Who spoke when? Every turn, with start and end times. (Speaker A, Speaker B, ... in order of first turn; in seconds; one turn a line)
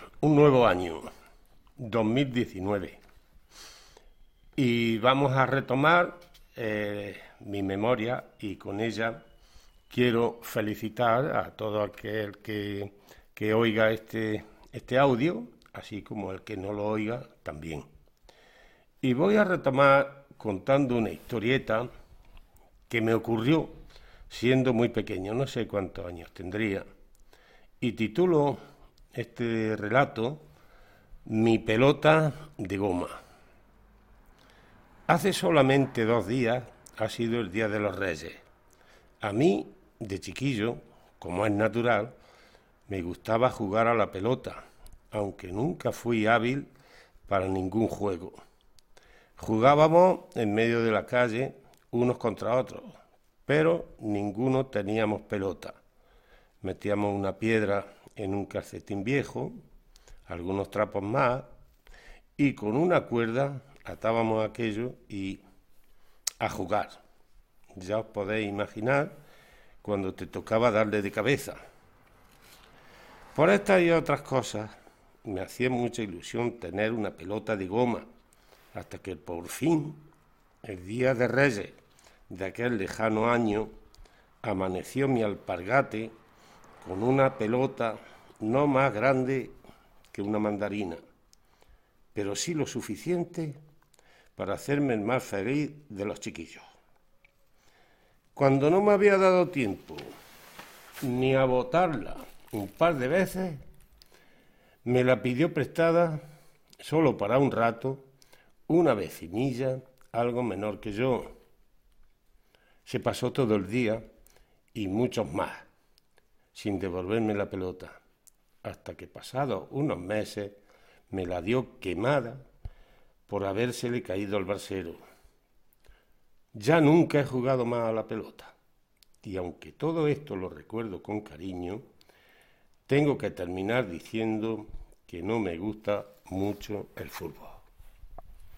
Speaker A: 0.2-1.1
Speaker A: 1.8-3.0
Speaker A: 4.6-9.2
Speaker A: 9.9-17.9
Speaker A: 19.0-21.9
Speaker A: 22.9-26.9
Speaker A: 27.8-28.6
Speaker A: 29.1-30.4
Speaker A: 31.2-33.2
Speaker A: 35.1-38.4
Speaker A: 39.2-42.1
Speaker A: 42.9-44.6
Speaker A: 45.1-46.7
Speaker A: 47.3-48.4
Speaker A: 49.4-55.8
Speaker A: 56.6-59.6
Speaker A: 60.3-61.5
Speaker A: 62.4-65.4
Speaker A: 66.4-67.0
Speaker A: 67.8-69.1
Speaker A: 69.8-71.6
Speaker A: 73.3-74.7
Speaker A: 75.2-78.0
Speaker A: 78.7-80.0
Speaker A: 80.6-83.7
Speaker A: 84.4-86.2
Speaker A: 86.8-89.6
Speaker A: 90.1-91.0
Speaker A: 92.1-93.6
Speaker A: 94.3-96.6
Speaker A: 98.3-100.1
Speaker A: 101.0-103.6
Speaker A: 104.8-106.2
Speaker A: 106.8-108.0
Speaker A: 108.7-111.3
Speaker A: 112.8-114.0
Speaker A: 114.7-115.7
Speaker A: 116.5-118.0
Speaker A: 118.6-120.6
Speaker A: 121.1-122.4
Speaker A: 123.3-125.0
Speaker A: 126.5-128.5
Speaker A: 129.2-131.8
Speaker A: 132.9-137.6